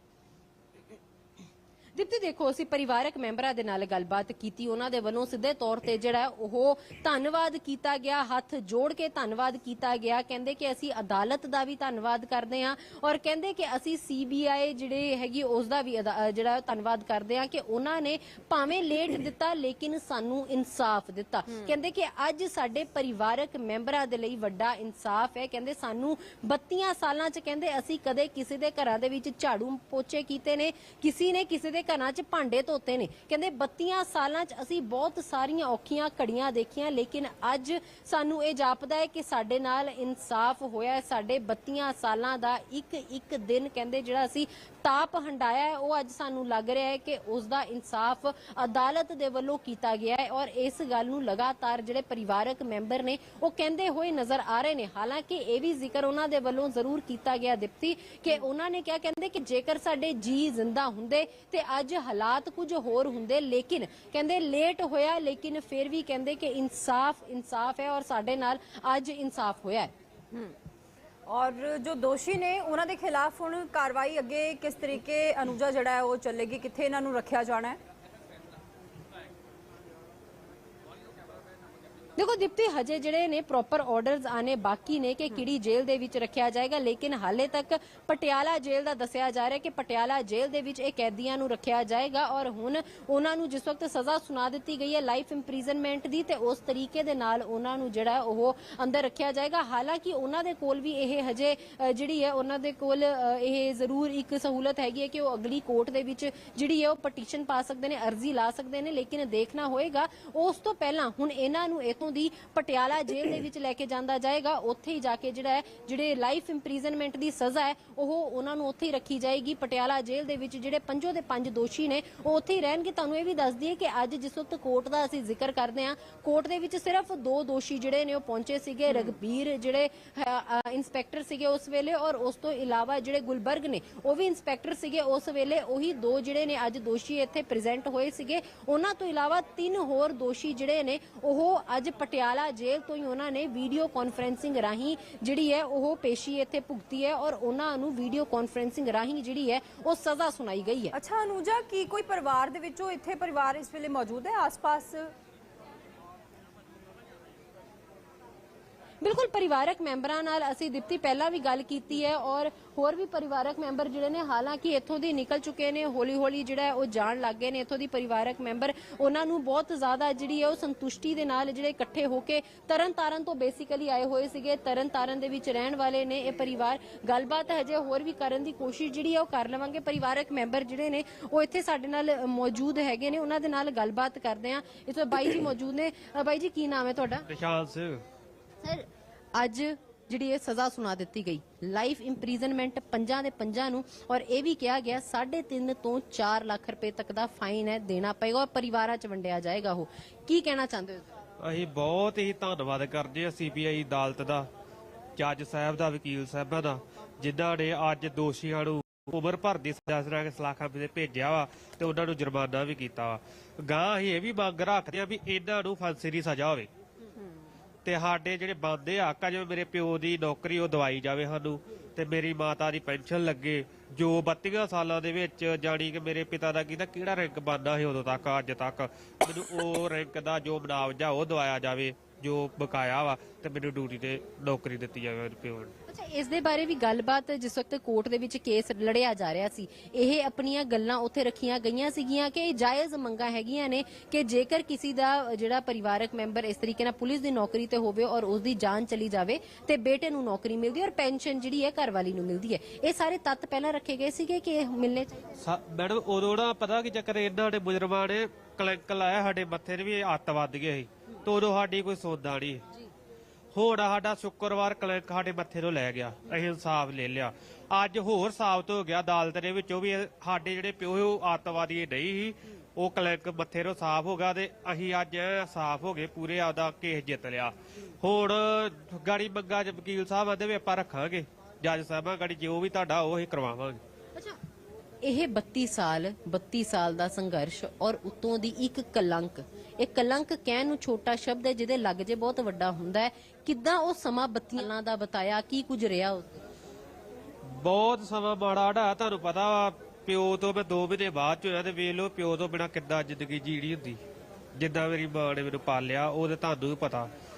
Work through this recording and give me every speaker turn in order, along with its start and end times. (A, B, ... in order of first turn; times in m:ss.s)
0:02.0-1:09.9 A
1:11.3-1:17.8 B
1:22.2-2:31.0 A
2:30.9-2:35.1 B
2:39.0-3:07.3 A
3:07.3-3:08.0 C
3:08.6-3:21.1 A
3:21.4-3:24.5 C
3:25.2-3:36.7 C
3:37.8-3:55.7 C
3:55.9-4:15.3 A
4:15.4-4:22.6 C
4:23.5-4:43.8 C
4:45.0-4:56.4 A
4:57.5-5:04.0 C
5:04.6-5:07.1 C